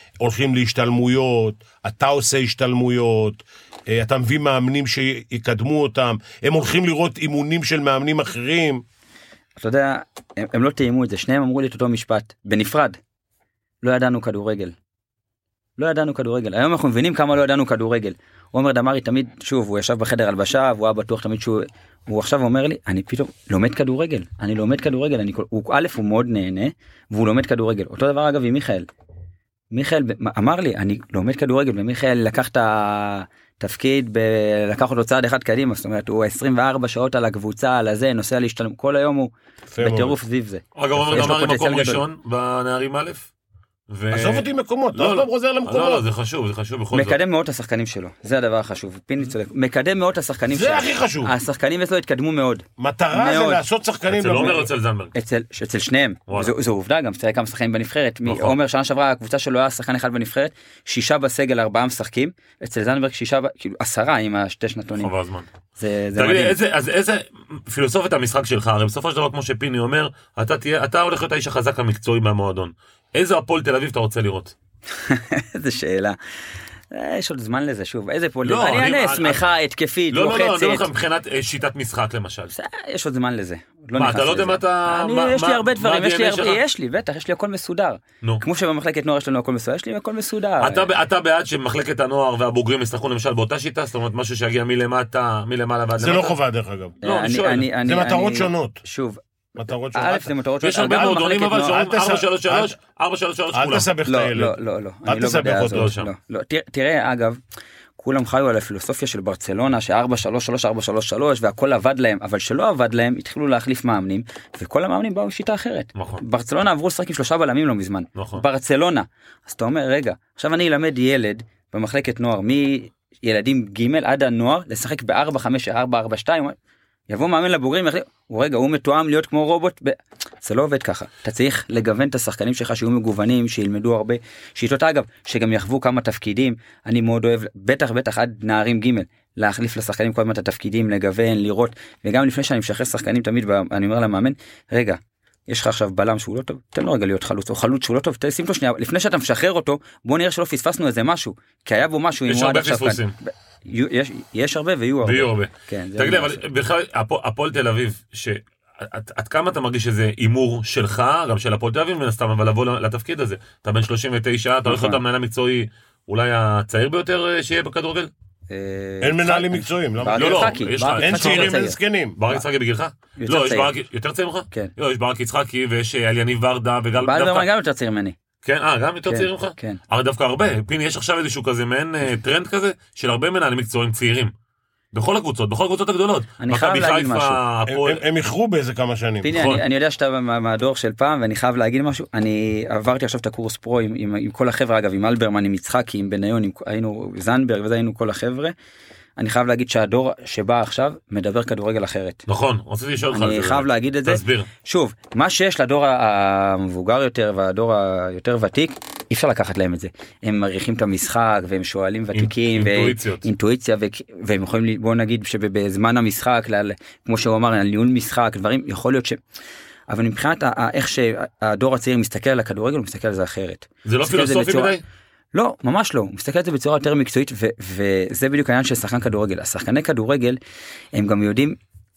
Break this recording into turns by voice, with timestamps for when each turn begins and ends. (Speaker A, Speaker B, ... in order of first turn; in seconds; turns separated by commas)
Speaker A: 0.2-8.8, Speaker B: 9.6-13.0, Speaker B: 13.8-14.8, Speaker B: 15.8-28.9, Speaker B: 29.7-42.0, Speaker A: 39.7-40.2, Speaker C: 40.8-43.3, Speaker A: 41.0-41.4, Speaker C: 43.9-47.2, Speaker A: 44.1-46.0, Speaker B: 46.9-53.6, Speaker A: 50.5-51.3, Speaker A: 52.8-54.7, Speaker C: 54.1-55.1, Speaker B: 55.1-65.1, Speaker C: 58.3-58.5, Speaker C: 65.0-65.5, Speaker B: 65.8-66.6, Speaker C: 66.2-74.5, Speaker B: 75.0-76.2, Speaker B: 76.9-80.9, Speaker C: 78.5-79.4, Speaker C: 80.1-82.5, Speaker B: 82.5-90.9, Speaker C: 84.0-86.6, Speaker C: 90.6-96.4, Speaker A: 96.0-97.0, Speaker C: 97.0-97.7, Speaker B: 97.0-99.2, Speaker A: 97.8-98.8, Speaker A: 99.6-100.3, Speaker B: 99.9-101.8, Speaker C: 100.6-103.9, Speaker A: 101.7-102.8, Speaker A: 103.5-105.9, Speaker B: 104.1-107.4, Speaker C: 105.7-106.1, Speaker B: 108.0-126.6, Speaker C: 116.0-116.2, Speaker C: 118.2-118.4, Speaker B: 127.1-156.4, Speaker C: 152.3-153.1, Speaker C: 155.0-168.1, Speaker B: 164.7-165.0, Speaker B: 168.5-171.8, Speaker A: 169.0-172.2, Speaker C: 170.2-171.6, Speaker C: 172.2-177.5, Speaker B: 173.2-173.7, Speaker B: 177.0-178.2, Speaker C: 178.4-184.3, Speaker B: 179.1-179.8, Speaker C: 184.9-188.0, Speaker B: 186.4-187.4, Speaker A: 187.7-189.3, Speaker B: 189.2-198.6, Speaker C: 189.3-189.6, Speaker B: 199.2-202.3, Speaker C: 202.3-204.5, Speaker B: 203.1-219.2, Speaker C: 212.1-213.3, Speaker B: 219.9-224.8, Speaker C: 223.8-224.8, Speaker B: 225.3-230.4, Speaker B: 230.9-231.6